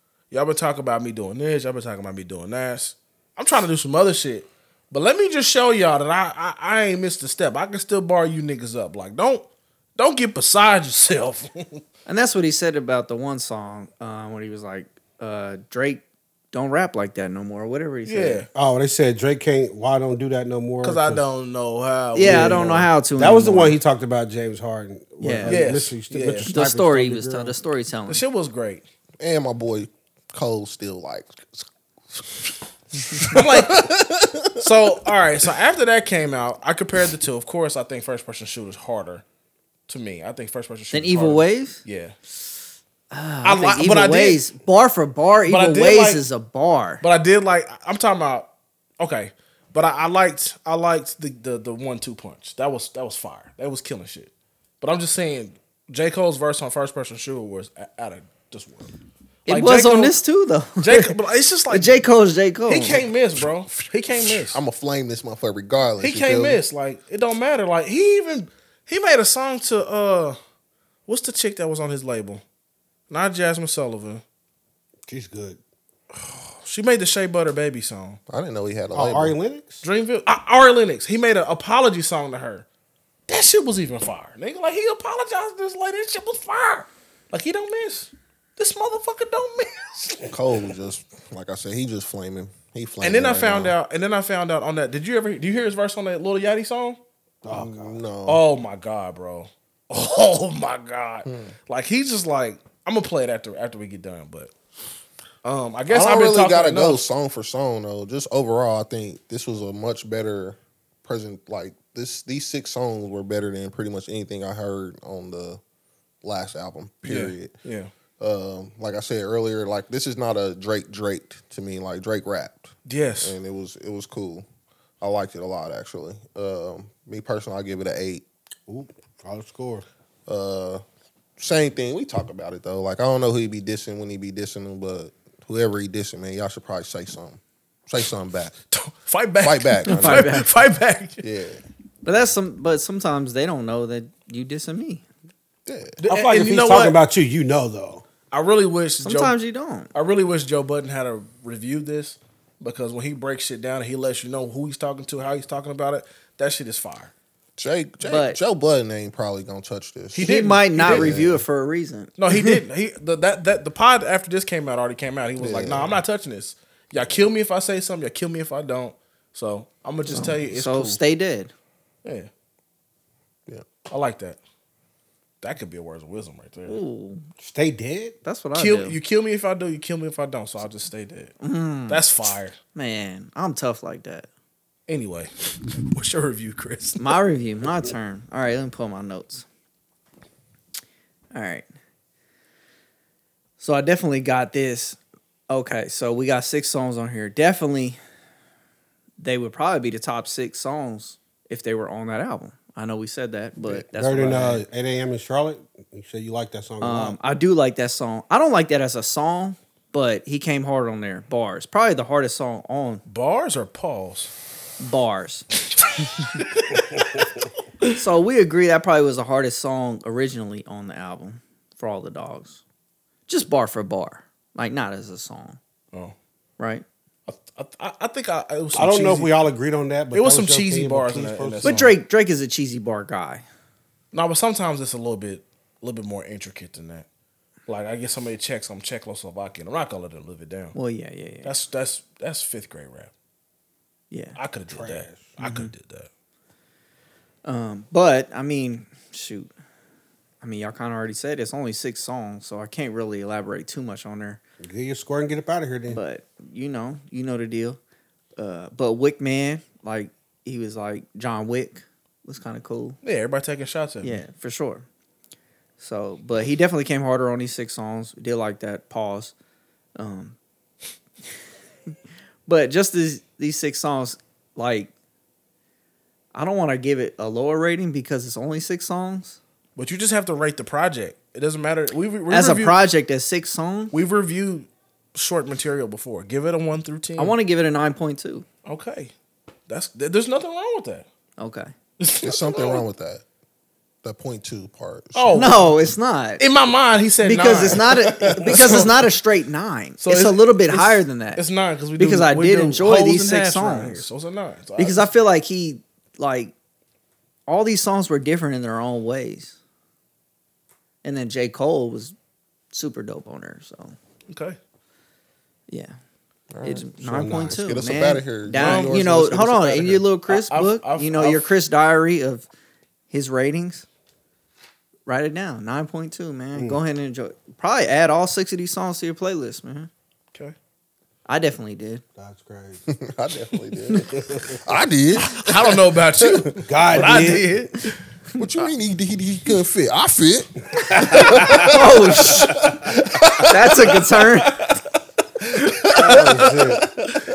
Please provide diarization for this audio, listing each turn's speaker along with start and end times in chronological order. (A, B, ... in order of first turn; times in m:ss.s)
0:00.3-0:09.4 A
0:10.0-0:11.8 A
0:12.0-0:18.4 B
0:18.0-0:18.5 A
0:18.5-0:21.3 C
0:20.8-0:22.8 A
0:22.1-0:23.8 B
0:22.2-0:27.5 C
0:25.2-0:25.6 B
0:25.4-0:26.5 A
0:26.4-0:28.2 B
0:28.1-0:28.8 A
0:29.2-0:34.4 D
0:33.3-0:34.0 A
0:34.6-0:39.2 A
0:39.9-0:42.1 A
0:40.9-0:41.8 B
0:43.1-0:47.0 B
0:43.4-0:44.4 A
0:45.4-0:46.2 A
0:47.0-0:58.9 A
0:59.4-1:00.2 A
0:59.5-1:01.1 B
1:00.8-1:02.0 A
1:01.7-1:03.0 B
1:02.7-1:04.6 A
1:03.7-1:06.6 D
1:06.0-1:10.4 A
1:11.1-1:12.4 A
1:13.1-1:14.2 A
1:15.1-1:15.6 C
1:16.5-1:18.2 A
1:18.3-1:19.4 D
1:18.9-1:19.8 C
1:19.8-1:22.6 A
1:23.3-1:30.3 A
1:30.3-1:33.8 D
1:33.0-1:37.0 A
1:37.4-1:38.0 C
1:37.5-1:38.4 D
1:38.2-1:44.5 A
1:41.2-1:41.5 D
1:45.4-1:47.1 A
1:45.9-1:55.6 D
1:56.2-1:57.5 D
1:57.0-1:57.9 A
1:58.2-2:04.4 D
2:02.8-2:03.4 A
2:05.0-2:08.2 D
2:08.7-2:09.8 C
2:10.3-2:10.8 D
2:11.4-2:18.6 D
2:18.7-2:21.2 A
2:19.4-2:20.3 D
2:19.8-2:20.5 B
2:21.2-2:21.6 D
2:22.0-2:25.0 B
2:25.6-2:26.0 D
2:26.0-2:27.0 A
2:26.0-2:28.0 C
2:28.3-2:29.3 A
2:29.0-2:29.9 B
2:29.9-2:37.1 A
2:37.6-2:40.3 D
2:38.0-2:38.4 B
2:40.1-2:41.2 A
2:40.1-2:42.6 B
2:40.8-2:41.4 D
2:42.2-2:51.0 A
2:45.4-2:46.0 D
2:50.1-2:51.5 B
2:52.0-2:52.3 A
2:53.9-2:54.4 A
2:55.4-2:56.8 A
2:56.7-2:57.2 B
2:57.4-2:58.2 C
2:58.2-2:59.0 B
2:58.5-3:01.3 A
3:01.4-3:02.0 B
3:01.9-3:02.6 A
3:02.7-3:04.3 B
3:04.9-3:07.2 A
3:07.0-3:09.4 B
3:11.3-3:11.6 B
3:13.6-3:18.0 B
3:19.2-3:24.6 B
3:24.0-3:27.2 C
3:26.8-3:33.0 B
3:33.0-3:34.3 A
3:34.8-3:35.5 B
3:36.4-3:36.6 A
3:38.0-3:42.6 B
3:43.3-3:45.6 B
3:46.6-3:46.8 B
3:47.2-3:49.3 A
3:48.7-3:51.9 C
3:50.1-3:51.8 A
3:51.6-3:53.4 B
3:54.1-3:57.0 A
3:57.7-4:00.7 A
4:00.7-4:01.5 B
4:01.4-4:03.1 A
4:04.1-4:04.4 B
4:04.4-4:06.1 A
4:04.7-4:05.4 C
4:05.4-4:05.7 B
4:07.4-4:09.5 B
4:10.4-4:14.4 B
4:14.6-4:16.0 C
4:15.9-4:17.8 B
4:18.4-4:23.0 B
4:23.0-4:24.2 A
4:24.0-4:24.8 B
4:25.8-4:29.3 B
4:30.0-4:30.4 B
4:32.4-4:34.9 B
4:36.3-4:39.4 B
4:39.8-4:42.8 A
4:42.3-4:43.9 B
4:43.9-4:47.4 A
4:47.2-4:48.4 B
4:48.6-4:49.1 A
4:49.7-4:51.0 A
4:51.4-4:51.7 B
4:52.0-4:52.8 A
4:52.2-4:53.2 D
4:54.0-4:55.7 D
4:55.1-4:55.6 A
4:55.3-4:56.4 B
4:56.4-4:58.9 A
4:57.2-5:01.4 B
4:57.5-4:58.6 D
5:00.0-5:05.1 A
5:02.0-5:04.1 B
5:04.8-5:06.5 B
5:07.5-5:09.6 B
5:11.0-5:12.1 B
5:12.7-5:13.9 B
5:14.3-5:14.6 A
5:15.7-5:16.0 B
5:16.5-5:16.8 D
5:16.6-5:22.5 B
5:17.0-5:17.6 C
5:17.6-5:19.5 D
5:18.5-5:21.5 A
5:23.1-5:23.8 B
5:25.0-5:29.9 B
5:26.5-5:26.8 C
5:31.2-5:32.0 B
5:32.2-5:32.8 C
5:33.0-5:36.4 D
5:35.2-5:38.0 A
5:36.6-5:37.5 C
5:38.4-5:43.9 D
5:41.0-5:41.4 C
5:41.5-5:42.6 B
5:43.5-5:44.6 B
5:45.8-5:46.8 A
5:46.0-5:46.8 C
5:46.8-5:47.2 D